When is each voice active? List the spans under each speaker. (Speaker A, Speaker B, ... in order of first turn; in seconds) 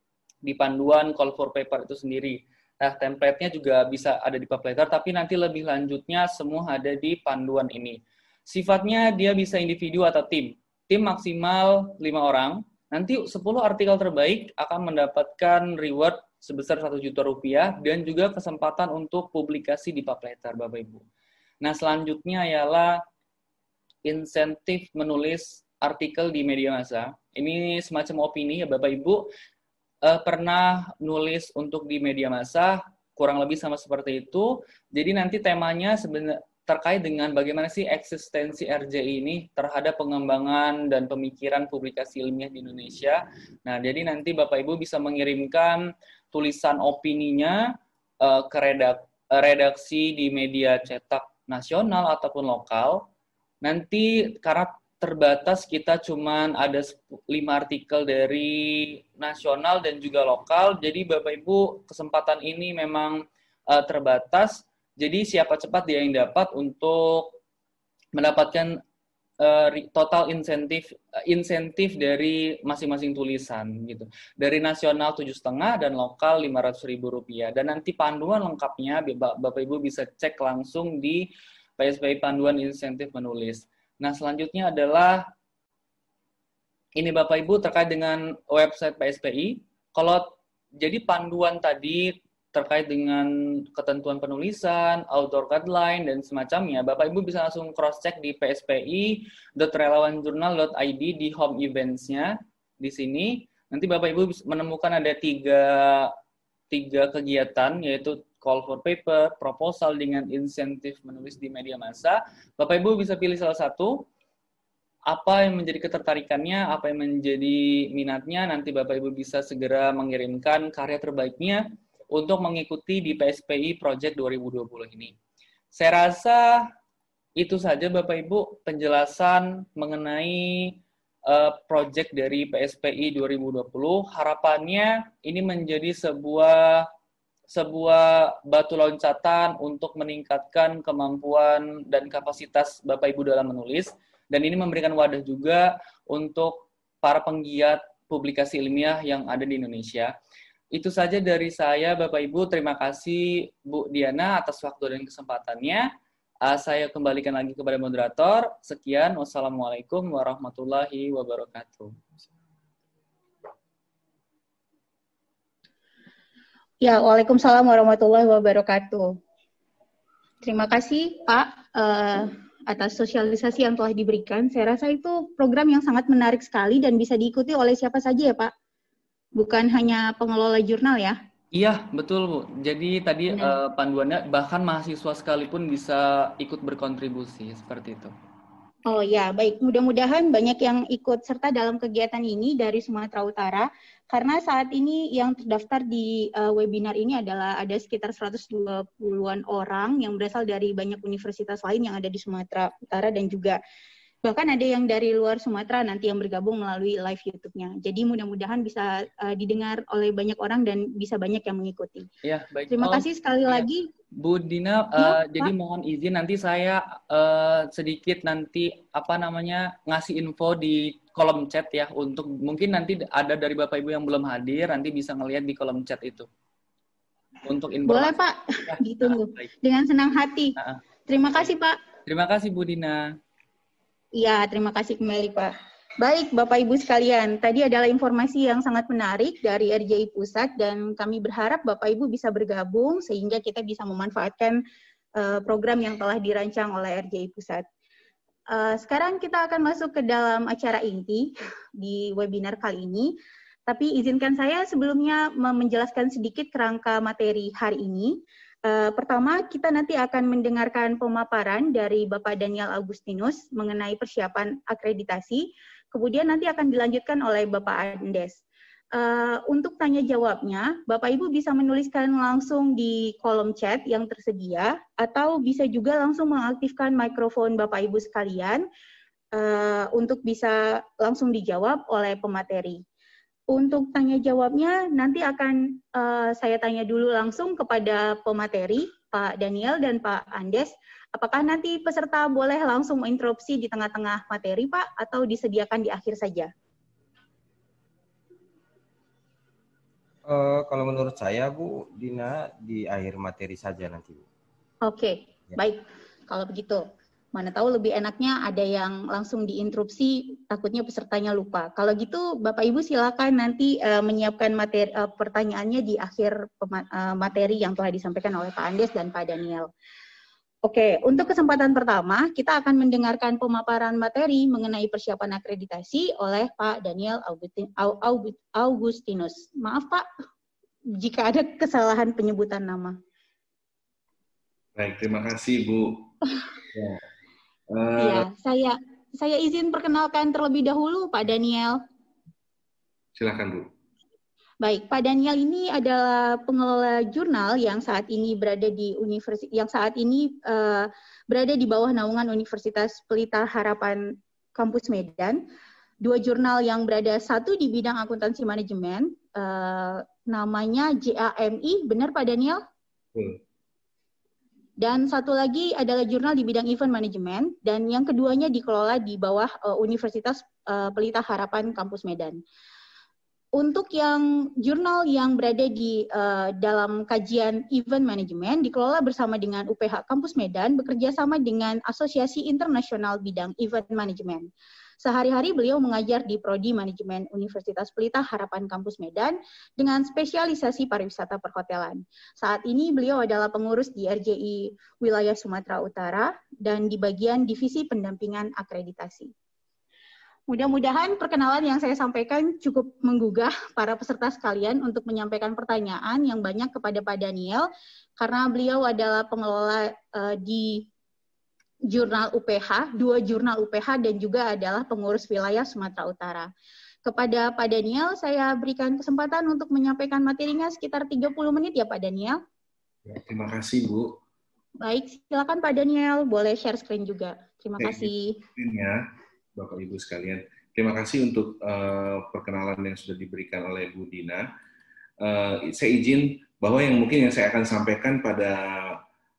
Speaker A: 0.4-21.0, 21.6-23.0, 24.1-29.3, 30.0-45.8, 46.3-47.6, 48.2-53.0, 53.6-63.2, 63.7-67.4, 68.2-68.8, 69.4-85.2, 87.0-90.3, 90.8-106.1, 106.7-114.0, 115.1-121.6, 122.1-125.1, 125.8-126.6, 127.4-130.7, 131.3-136.9, 137.5-150.1, 150.7-155.9, 156.5-161.9, 181.5-188.1, 212.2-213.7, 214.2-226.3, 227.4-228.2, 228.7-229.4, 232.1-233.1
Speaker B: 166.8-169.1, 170.4-178.5, 179.4-181.2, 183.3-183.6, 188.9-203.6, 204.2-212.1, 212.7-213.9, 215.0-215.5, 227.9-230.6, 231.1-231.8, 234.2-244.6, 245.2-247.7, 248.5-253.1, 253.7-258.1, 258.7-268.4, 268.9-278.6, 279.4-282.8, 283.5-296.5, 304.9-306.8, 307.4-319.7, 320.6-330.1, 330.9-332.9, 338.0-341.8, 344.6-354.0, 354.6-355.4, 356.0-362.6, 364.8-372.4, 373.6-384.5, 385.0-399.3, 400.5-407.7, 408.2-410.9, 411.9-416.5, 417.1-422.4, 424.8-428.4
Speaker C: 300.2-304.2
Speaker D: 334.8-336.1, 336.7-337.0, 337.7-338.3, 343.2-343.7, 423.1-424.1, 427.8-429.0, 429.6-434.5, 435.2-439.0